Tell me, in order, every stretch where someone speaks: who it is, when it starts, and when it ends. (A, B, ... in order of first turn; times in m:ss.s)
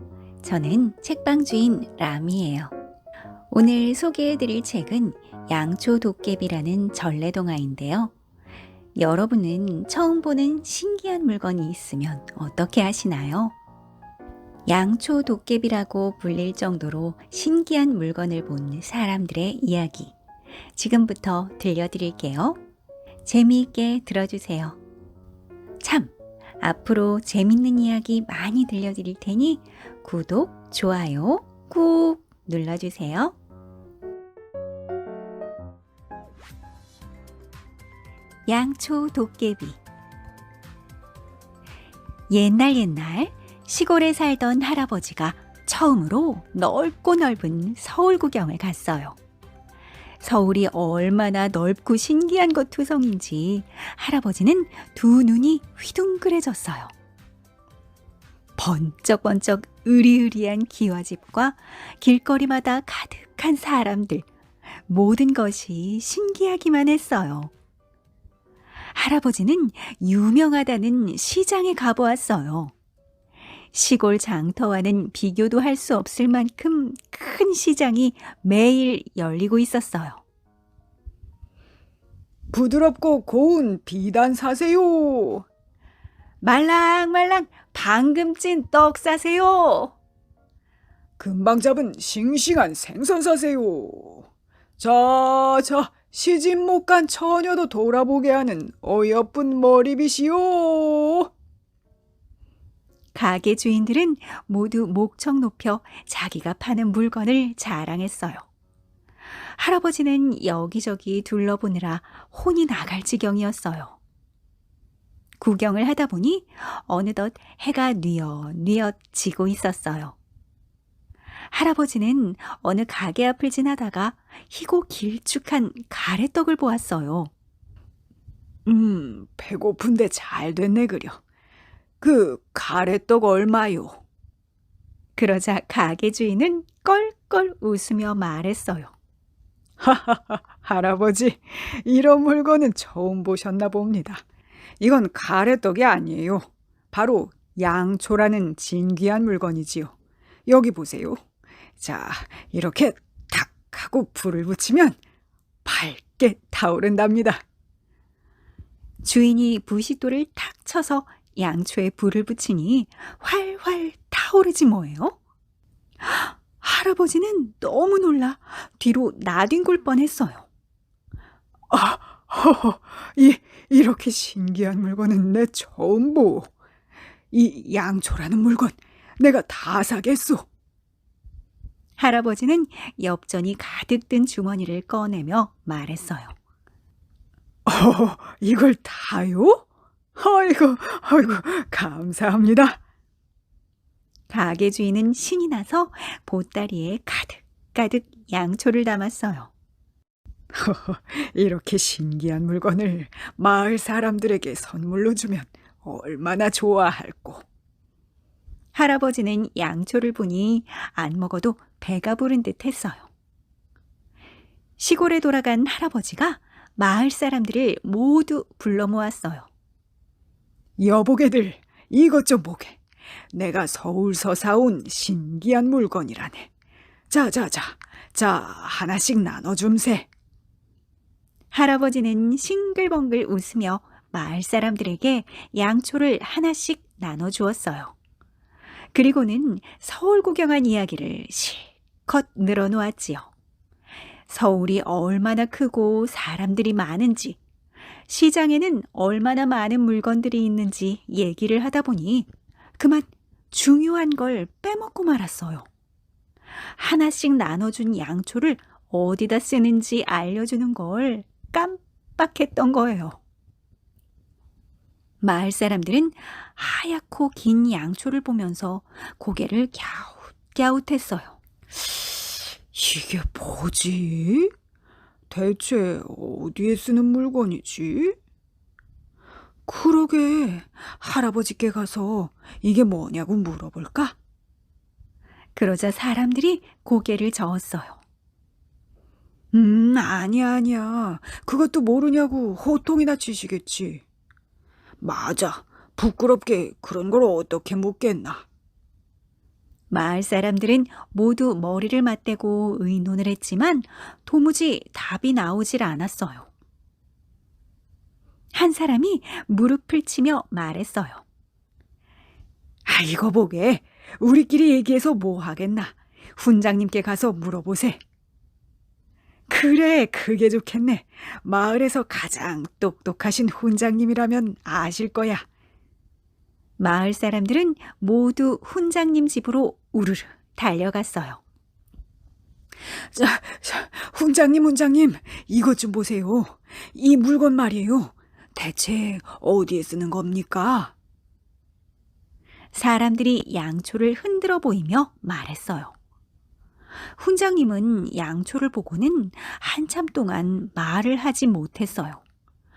0:00.4-0:02.7 A
0:03.5-0:08.1 A
0:09.0-0:13.6 A
0:14.7-0:20.1 A
0:20.7-0:22.6 A
0:23.2-0:24.8 A
0:25.8-0:33.4 A
0:38.5-0:39.8 A
0:42.3-0:49.2 A
0:50.2-0:56.9 A
0:58.6-1:04.3 A
1:04.9-1:07.5 A
1:08.9-1:12.7 A
1:13.7-1:20.2 A
1:22.5-1:25.4 B
1:26.4-1:30.0 A
1:31.2-1:34.3 B
1:34.8-1:41.3 B
1:43.1-1:48.4 A
1:49.6-1:54.0 A
1:55.4-2:00.2 A
2:01.5-2:07.3 A
2:08.6-2:11.2 B
2:12.0-2:14.0 B
2:15.2-2:18.9 A
2:19.8-2:24.2 B
2:24.8-2:29.9 B
2:30.5-2:31.2 B
2:31.8-2:35.0 B
2:35.6-2:37.4 B
2:39.0-2:45.2 A
2:46.0-2:50.5 A
2:51.7-2:56.5 B
2:57.3-3:00.5 B
3:02.0-3:06.3 A
3:07.6-3:09.6 B
3:10.2-3:12.8 B
3:14.3-3:19.5 A
3:20.5-3:27.4 B
3:28.7-3:33.1 A
3:34.8-3:39.5 A
3:40.8-3:42.8 B
3:43.3-3:46.5 B
3:47.1-3:50.1 B
3:51.5-3:57.9 A
3:58.9-4:03.3 A
4:04.3-4:07.4 A
4:08.1-4:15.7 A
4:16.7-4:23.2 A
4:25.2-4:31.4 A
4:32.7-4:34.5 B
4:35.3-4:38.2 B
4:39.7-4:44.2 B
4:45.5-4:48.0 A
4:49.5-4:54.0 B
4:55.0-4:58.4 B
4:59.9-5:06.5 A
5:08.5-5:11.2 A
5:12.9-5:18.0 B
5:19.5-5:25.4 B
5:26.8-5:31.4 A
5:33.1-5:40.9 B
5:42.7-5:45.9 A
5:47.2-5:52.2 A